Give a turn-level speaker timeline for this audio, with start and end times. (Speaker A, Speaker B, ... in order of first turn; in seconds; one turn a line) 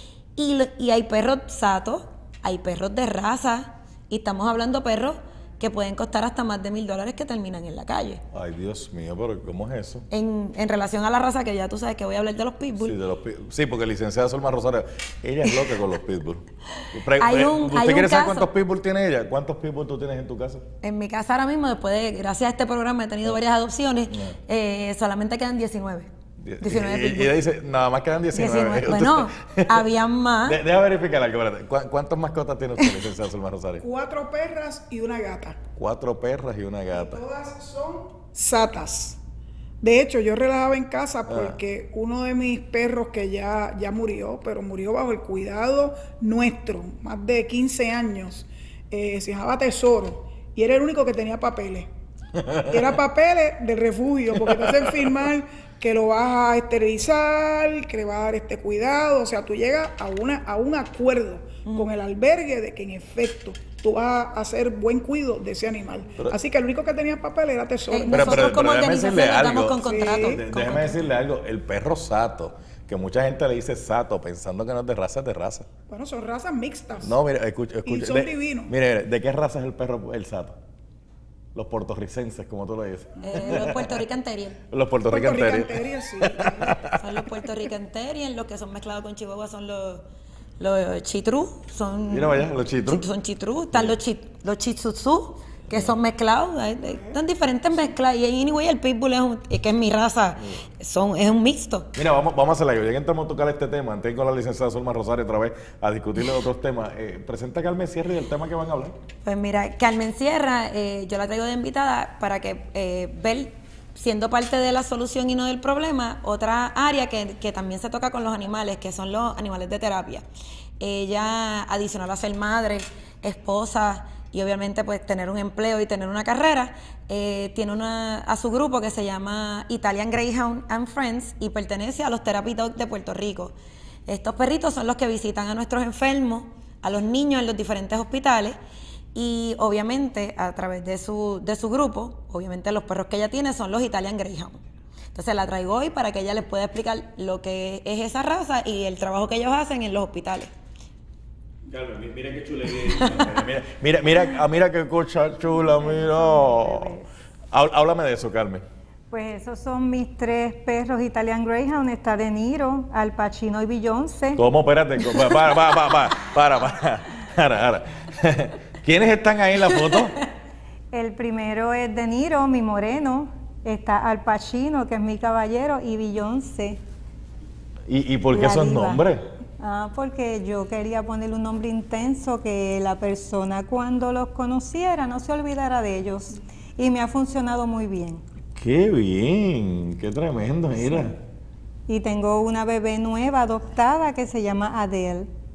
Speaker A: 0.4-8.2
Speaker B: 8.3-10.1
Speaker A: 10.1-13.0
Speaker B: 12.8-20.6
Speaker A: 17.1-18.5
Speaker A: 20.8-26.1
Speaker B: 26.4-29.8
Speaker A: 26.6-27.4
Speaker A: 28.4-30.6
Speaker B: 30.4-33.9
Speaker C: 33.8-35.6
Speaker B: 35.8-37.2
Speaker C: 36.9-39.2
Speaker C: 39.8-51.9
Speaker B: 41.3-41.6
Speaker C: 52.7-68.5
Speaker B: 54.5-55.1
Speaker A: 61.7-61.9
Speaker A: 67.9-71.1
Speaker B: 68.1-75.7
Speaker C: 69.8-70.4
Speaker C: 75.9-77.2
Speaker B: 77.0-80.6
Speaker C: 77.8-78.7
Speaker B: 81.5-84.0
Speaker A: 83.2-84.6
Speaker B: 84.7-87.2
Speaker C: 85.1-86.7
Speaker A: 87.0-90.0
Speaker A: 90.6-101.9
Speaker B: 92.1-93.1
Speaker B: 102.0-109.0
Speaker A: 109.2-120.3
Speaker A: 120.8-133.5
Speaker A: 134.1-138.6
Speaker A: 139.2-144.6
Speaker A: 145.1-150.5
Speaker B: 151.7-156.9
Speaker A: 153.0-153.4
Speaker D: 155.5-157.1
Speaker B: 157.5-158.6
Speaker D: 159.1-164.4
Speaker B: 164.4-170.2
Speaker D: 170.9-176.8
Speaker B: 177.9-179.3
Speaker D: 178.3-179.1
Speaker D: 179.6-188.2
Speaker B: 188.6-191.2
Speaker D: 191.9-195.3